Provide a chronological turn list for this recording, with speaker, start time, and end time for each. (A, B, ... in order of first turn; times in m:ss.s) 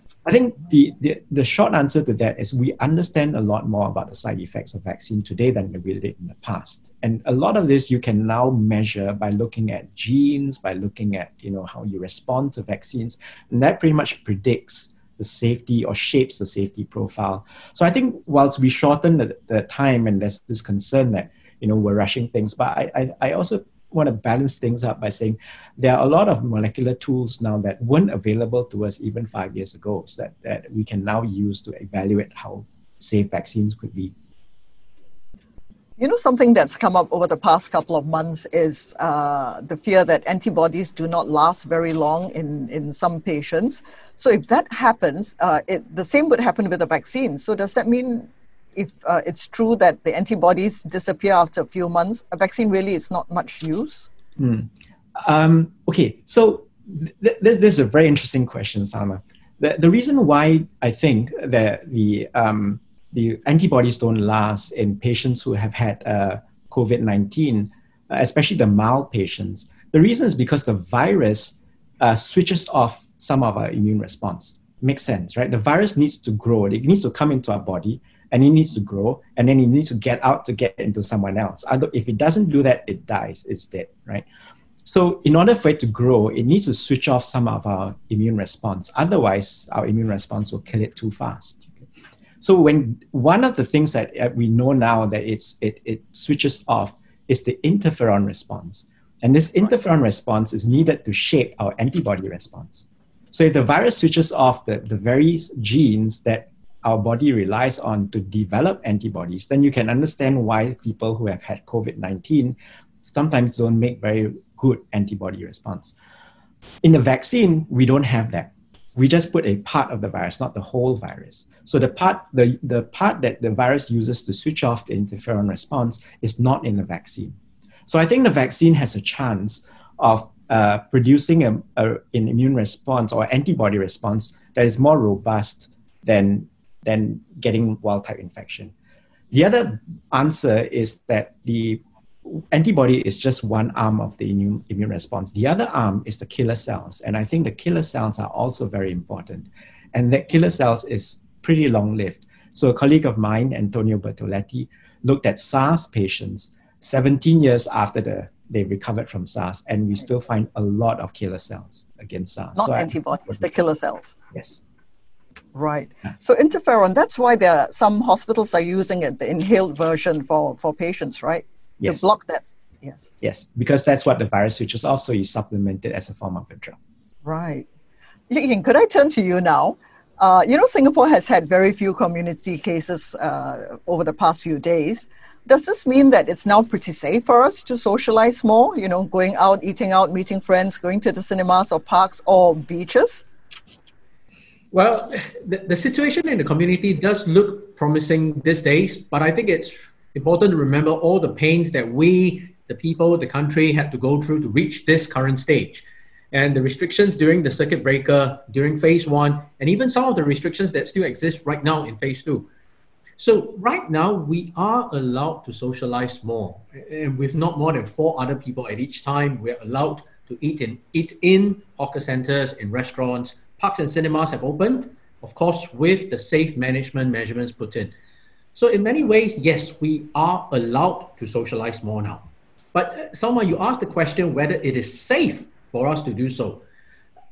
0:00.2-0:34.1 A
0:36.0-0:54.1 B
0:54.4-1:24.2 A
1:24.8-1:31.8 A
1:32.4-1:55.9 A
1:56.8-2:07.3 A
2:07.9-2:18.7 A
2:19.3-2:43.4 A
2:42.6-2:44.2 B
2:44.3-2:44.6 A
2:45.6-2:53.1 B
2:51.8-2:52.1 A
2:53.2-2:56.8 A
2:57.2-2:57.6 B
2:58.3-3:13.2 B
3:14.7-3:32.5 C
3:33.2-3:47.9 C
3:48.6-3:56.6 C